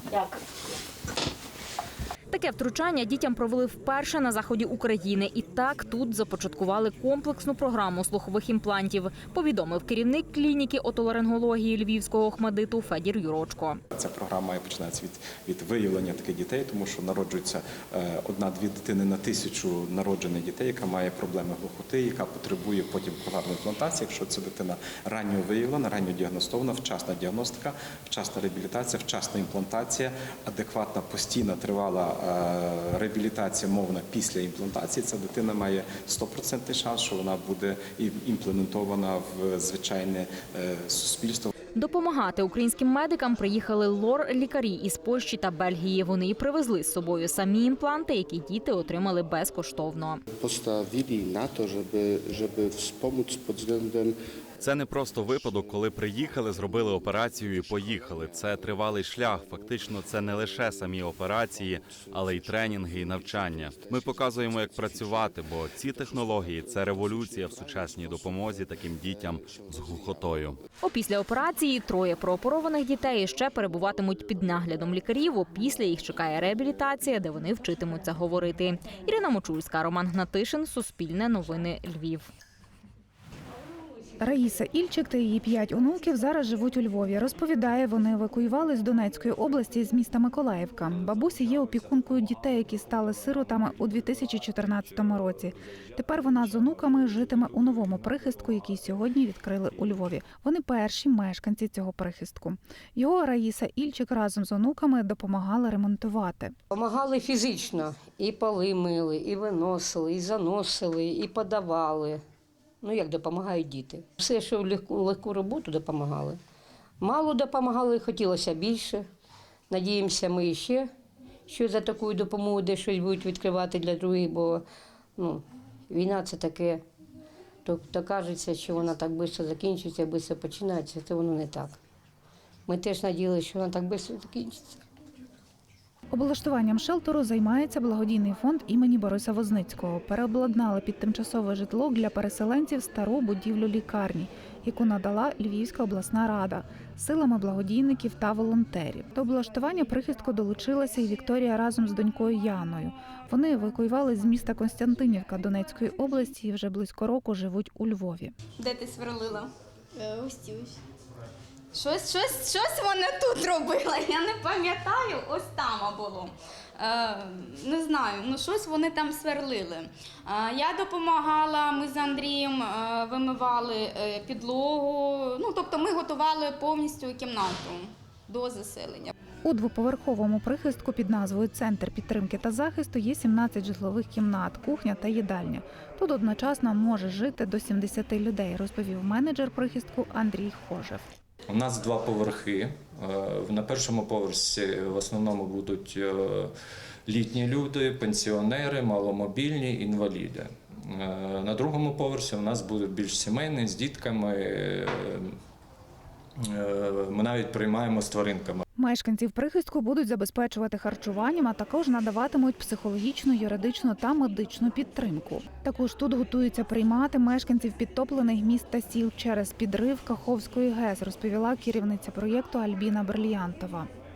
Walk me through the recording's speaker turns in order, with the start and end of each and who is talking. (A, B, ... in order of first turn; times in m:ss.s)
0:02.3-0:13.8 A
0:13.9-0:41.5 B
0:41.7-0:50.2 A
0:50.4-0:54.2 C
0:54.6-1:10.6 D
1:10.8-1:22.3 A
1:24.2-1:46.5 E
1:46.7-1:52.2 F
1:52.8-1:56.4 F
1:57.0-1:59.0 F
1:59.7-2:00.9 F
2:01.5-2:04.6 F
2:05.2-2:06.8 F
2:07.6-2:11.8 F
2:12.7-2:14.8 F
2:16.1-2:38.3 E
2:38.6-2:40.7 G
2:41.7-2:59.1 G
2:59.4-3:11.0 E
3:11.5-3:16.5 H
3:17.1-3:25.3 H
3:26.5-3:28.6 H
3:28.8-3:43.9 E